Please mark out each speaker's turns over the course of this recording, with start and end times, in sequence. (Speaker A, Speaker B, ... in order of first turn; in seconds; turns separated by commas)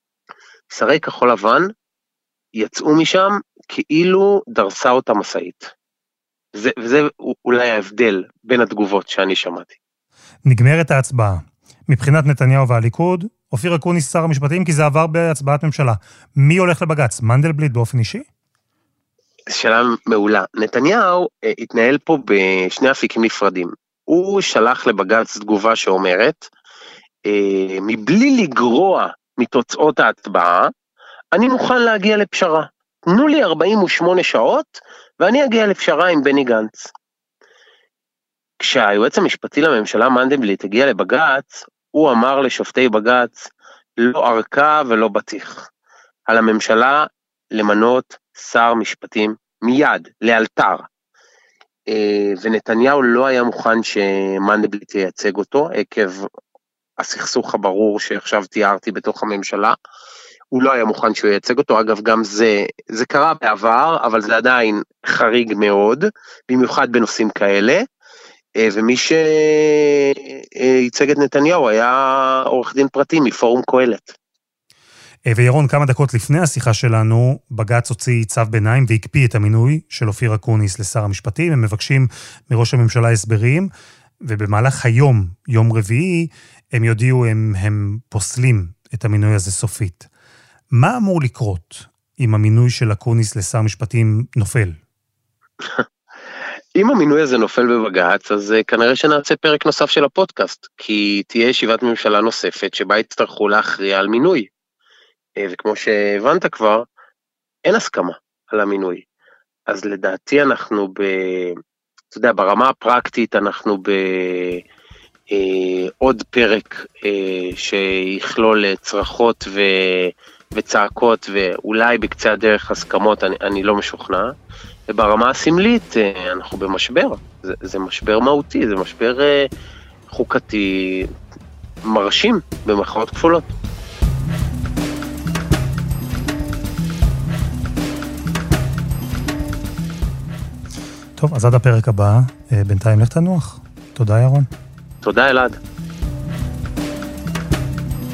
Speaker A: 0.7-1.7, Speaker A: 2.6-5.7, Speaker A: 6.5-9.8, Speaker B: 10.4-18.2, Speaker A: 19.5-26.5, Speaker A: 27.2-30.7, Speaker A: 31.3-36.9, Speaker A: 38.6-45.7, Speaker A: 46.3-50.9, Speaker A: 51.9-56.3, Speaker A: 57.0-59.8, Speaker A: 60.5-67.8, Speaker A: 68.6-74.2, Speaker B: 75.2-83.7, Speaker B: 84.2-90.1, Speaker B: 90.7-94.8, Speaker A: 96.7-104.5, Speaker A: 105.4-106.8, Speaker A: 107.6-109.0, Speaker A: 109.7-111.6, Speaker A: 112.1-114.6, Speaker A: 115.3-124.3, Speaker A: 124.9-129.4, Speaker A: 130.1-131.1, Speaker A: 131.8-133.5, Speaker B: 141.2-144.5, Speaker A: 145.0-145.6